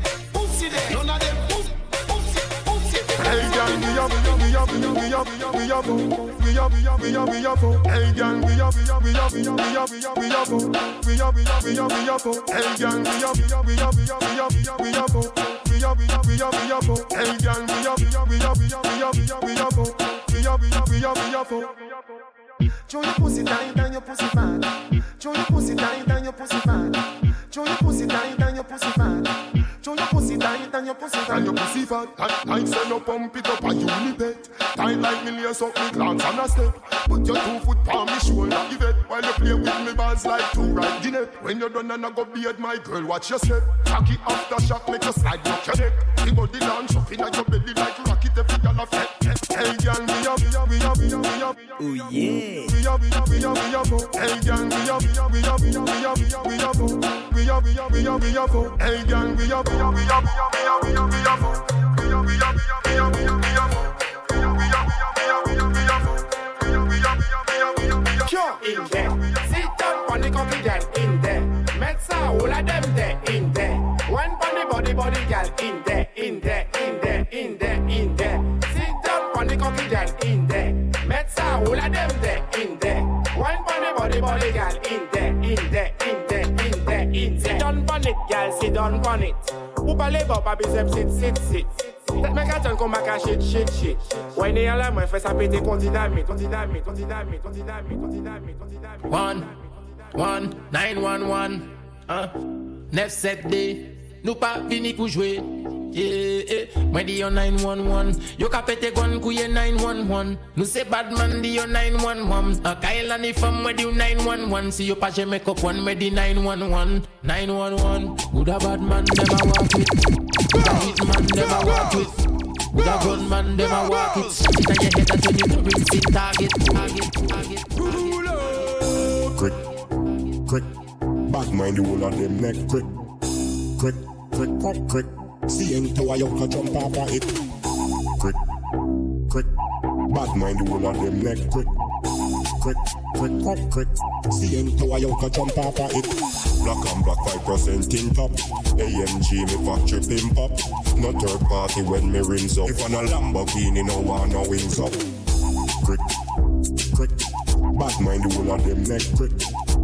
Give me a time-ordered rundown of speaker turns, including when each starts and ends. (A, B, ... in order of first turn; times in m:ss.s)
0:00.4-0:01.6 A
0:03.3-0:21.6 B
0:22.9-0:24.6 A
0:25.2-0:26.8 A
0:27.5-0:29.2 A
0:30.1-0:31.0 A
0:31.6-0:51.4 B
0:53.2-0:57.0 B
0:57.5-1:00.8 B
1:09.6-1:13.9 C
1:14.8-1:17.2 C
1:18.0-1:29.4 C
1:30.1-1:31.6 C
1:32.4-1:38.5 C
1:39.1-1:39.5 D
1:40.2-1:42.3 D
1:42.9-2:02.2 D
2:02.7-2:08.6 D
2:09.3-2:09.7 E
2:10.4-2:10.7 E
2:11.3-2:12.9 E
2:13.8-2:17.4 E
2:20.1-2:21.7 E
2:22.6-2:35.0 E
2:37.7-2:39.4 E